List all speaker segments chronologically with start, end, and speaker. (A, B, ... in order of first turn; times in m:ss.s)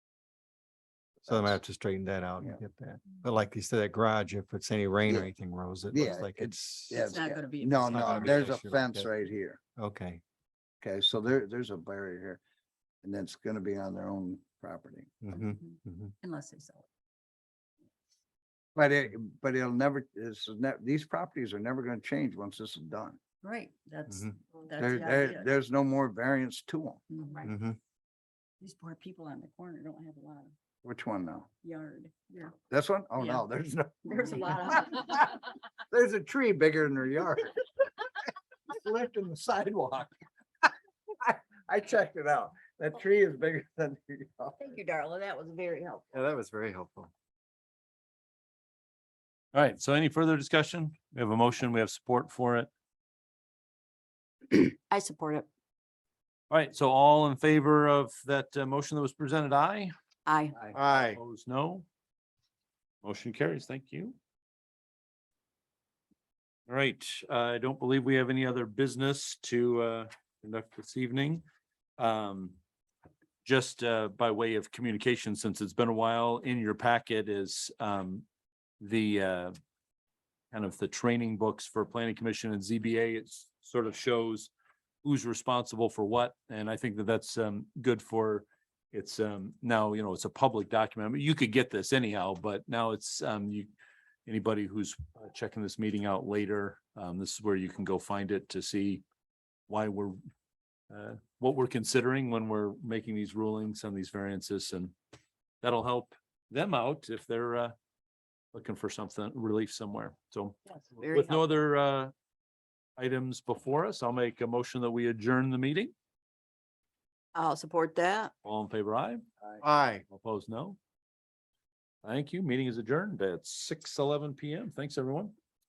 0:01.2-0:01.5 A
0:01.3-0:07.2 B
0:05.9-0:09.6 A
0:07.0-0:08.4 C
0:07.8-0:09.1 B
0:09.8-0:10.2 B
0:10.8-0:12.4 A
0:13.0-0:15.1 A
0:15.2-0:16.1 B
0:15.3-0:16.8 C
0:18.7-0:23.2 A
0:23.4-0:25.5 C
0:24.8-0:27.0 A
0:27.1-0:27.5 C
0:27.4-0:27.8 B
0:28.6-0:30.5 C
0:30.8-0:31.5 A
0:31.6-0:32.5 C
0:32.7-0:37.6 A
0:33.2-0:33.4 C
0:34.0-0:35.3 C
0:38.7-0:44.8 A
0:44.6-0:46.0 C
0:46.1-0:47.1 B
0:49.5-0:52.7 D
0:54.5-0:55.5 C
0:56.5-0:59.9 D
1:00.2-1:00.6 C
1:00.7-1:01.2 B
1:01.1-1:01.8 D
1:03.0-1:04.2 D
1:06.7-1:11.4 D
1:12.0-1:12.6 D
1:13.4-1:18.2 D
1:18.8-1:19.5 D
1:20.5-1:24.5 D
1:25.0-1:33.7 D
1:34.2-1:39.0 D
1:39.7-1:40.2 D
1:40.9-1:44.9 D
1:45.6-1:47.7 D
1:48.5-1:52.1 D
1:50.7-1:51.5 C
1:53.0-1:55.9 D
1:57.3-1:58.3 C
1:58.4-1:59.2 D
1:59.6-2:00.0 B
2:00.1-2:00.8 D
2:02.0-2:05.3 D